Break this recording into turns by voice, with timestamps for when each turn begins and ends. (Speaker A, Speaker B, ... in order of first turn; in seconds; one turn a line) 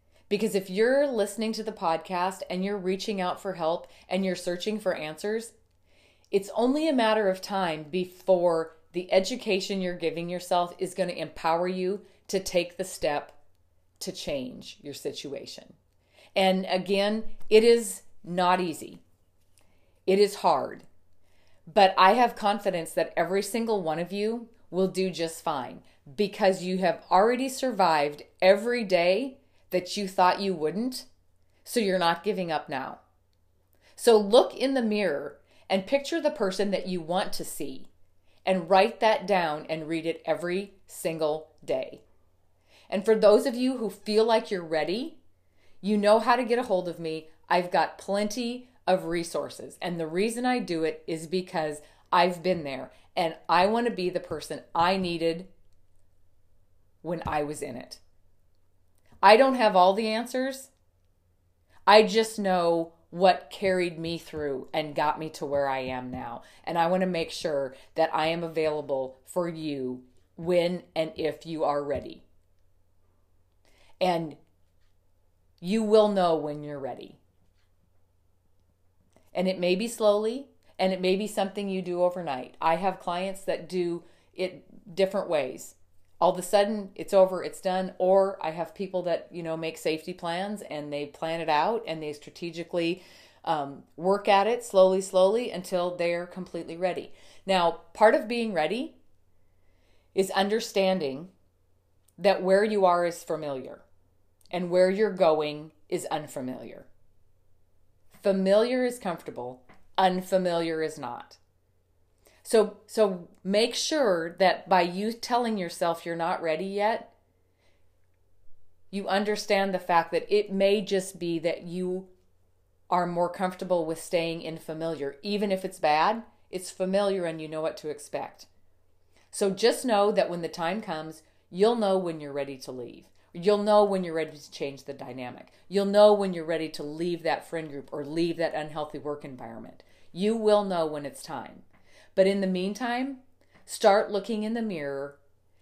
Speaker A: 0.3-5.5
Speaker A: 6.3-13.4
Speaker A: 14.0-15.8
Speaker A: 16.4-19.0
Speaker A: 20.1-20.9
Speaker A: 21.7-31.1
Speaker A: 31.6-33.0
Speaker A: 34.0-37.9
Speaker A: 38.4-42.0
Speaker A: 42.9-45.2
Speaker A: 45.8-55.5
Speaker A: 57.0-58.0
Speaker A: 59.2-60.7
Speaker A: 61.9-72.2
Speaker A: 74.0-74.4
Speaker A: 75.6-77.2
Speaker A: 79.3-99.0
Speaker A: 100.1-101.3
Speaker A: 102.2-103.8
Speaker A: 104.5-106.9
Speaker A: 108.1-111.4
Speaker A: 112.4-117.1
Speaker A: 118.9-122.1
Speaker A: 122.9-128.5
Speaker A: 129.3-145.2